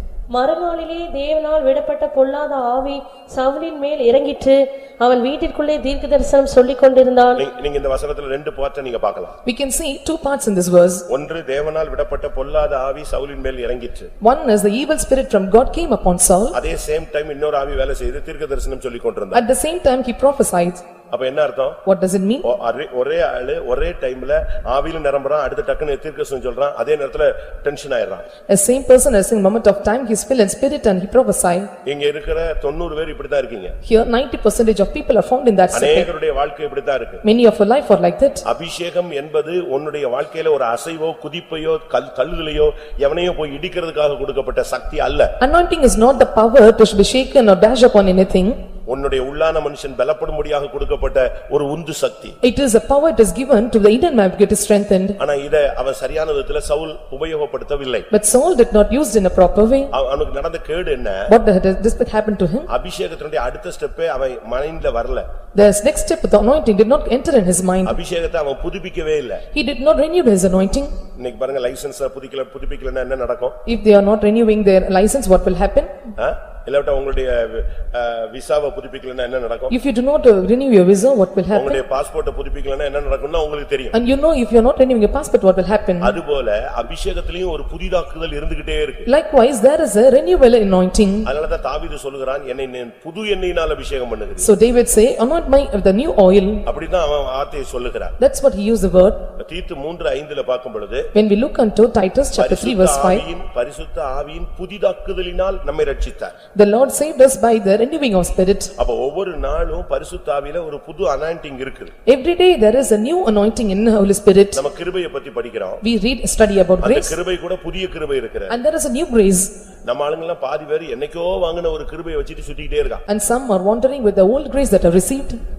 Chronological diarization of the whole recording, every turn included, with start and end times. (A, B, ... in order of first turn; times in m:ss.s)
0:00.3-0:07.4 A
0:07.4-0:09.4 B
0:09.5-0:11.0 C
0:11.1-0:14.1 B
0:14.2-0:16.6 C
0:16.5-0:19.4 B
0:19.3-0:20.8 C
0:21.1-0:21.8 B
0:21.8-0:22.4 C
0:22.4-0:28.2 B
0:28.5-0:31.7 C
0:31.8-0:33.8 B
0:33.8-0:36.1 C
0:35.7-0:37.2 B
0:37.2-0:38.4 C
0:38.4-0:45.3 B
0:45.4-0:48.6 C
0:48.9-0:52.4 B
0:52.4-0:55.2 C
0:55.2-0:58.1 B
0:58.1-0:59.9 C
0:59.9-1:01.3 B
1:01.3-1:02.7 C
1:02.7-1:05.3 B
1:05.6-1:08.0 C
1:07.8-1:09.4 B
1:09.5-1:11.0 C
1:11.2-1:13.6 B
1:13.7-1:16.0 C
1:16.2-1:19.7 B
1:19.7-1:21.8 C
1:21.5-1:24.0 B
1:23.9-1:26.2 C
1:26.0-1:29.1 B
1:29.1-1:31.3 C
1:31.2-1:34.5 B
1:34.4-1:36.7 C
1:36.7-1:38.2 B
1:38.2-1:39.3 C
1:39.4-1:41.1 B
1:41.1-1:43.3 C
1:42.4-1:46.3 B
1:46.6-1:48.7 C
1:48.8-1:51.9 B
1:52.1-1:54.6 C
1:54.5-1:55.8 B
1:55.8-1:57.2 C
1:56.8-1:58.6 B
1:58.5-1:59.5 C
1:59.9-2:03.0 B
2:03.1-2:05.4 C